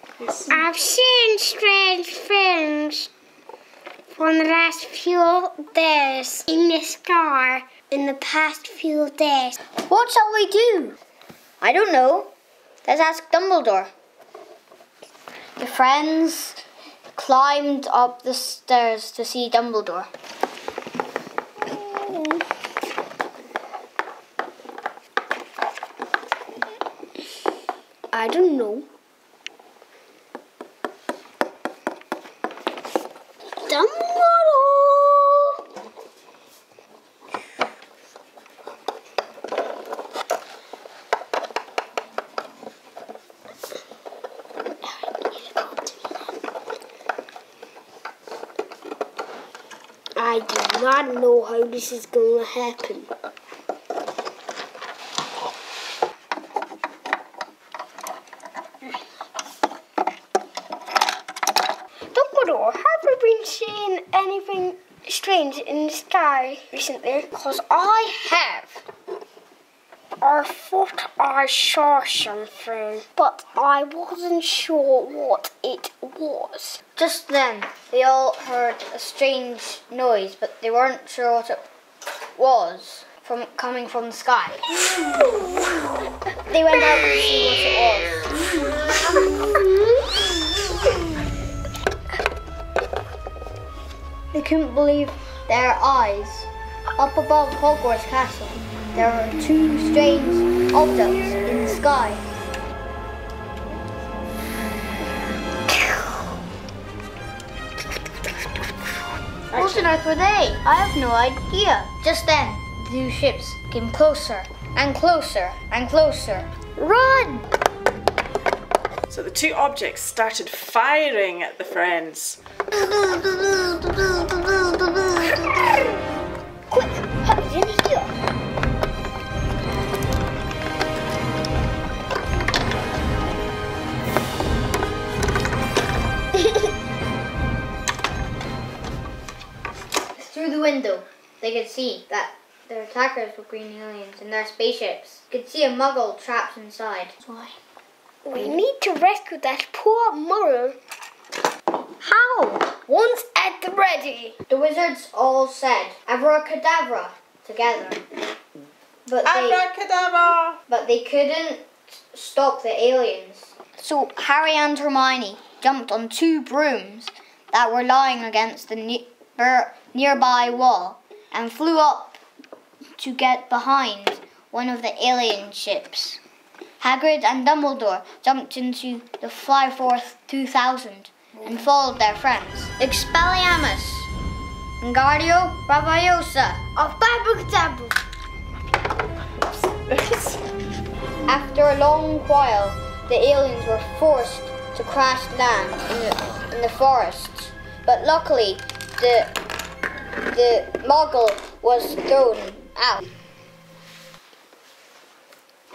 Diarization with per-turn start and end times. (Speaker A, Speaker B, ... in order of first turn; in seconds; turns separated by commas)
Speaker A: 0.2-0.5, Speaker B: 0.5-3.1, Speaker B: 4.1-9.6, Speaker C: 9.8-11.0, Speaker C: 11.6-12.3, Speaker C: 12.8-13.9, Speaker C: 15.6-16.6, Speaker C: 17.1-20.1, Speaker B: 21.7-22.4, Speaker B: 28.1-28.9, Speaker B: 33.6-35.6, Speaker B: 44.8-45.9, Speaker B: 50.1-53.1, Speaker B: 62.1-68.8, Speaker B: 70.2-76.8, Speaker C: 77.0-81.6, Speaker C: 82.3-84.8, Speaker C: 86.5-88.2, Speaker B: 89.2-90.0, Speaker C: 94.3-102.2, Speaker C: 109.5-117.5, Speaker A: 109.5-109.8, Speaker A: 119.1-122.4, Speaker B: 126.7-128.1, Speaker C: 140.1-147.5, Speaker B: 148.2-150.8, Speaker B: 152.0-154.4, Speaker C: 154.5-158.0, Speaker C: 159.1-159.7, Speaker A: 159.2-160.6, Speaker C: 160.7-172.2, Speaker C: 173.0-176.2, Speaker C: 176.8-184.1, Speaker C: 184.8-186.6, Speaker B: 186.8-188.0, Speaker A: 189.7-190.4, Speaker C: 191.3-199.3, Speaker C: 200.3-203.0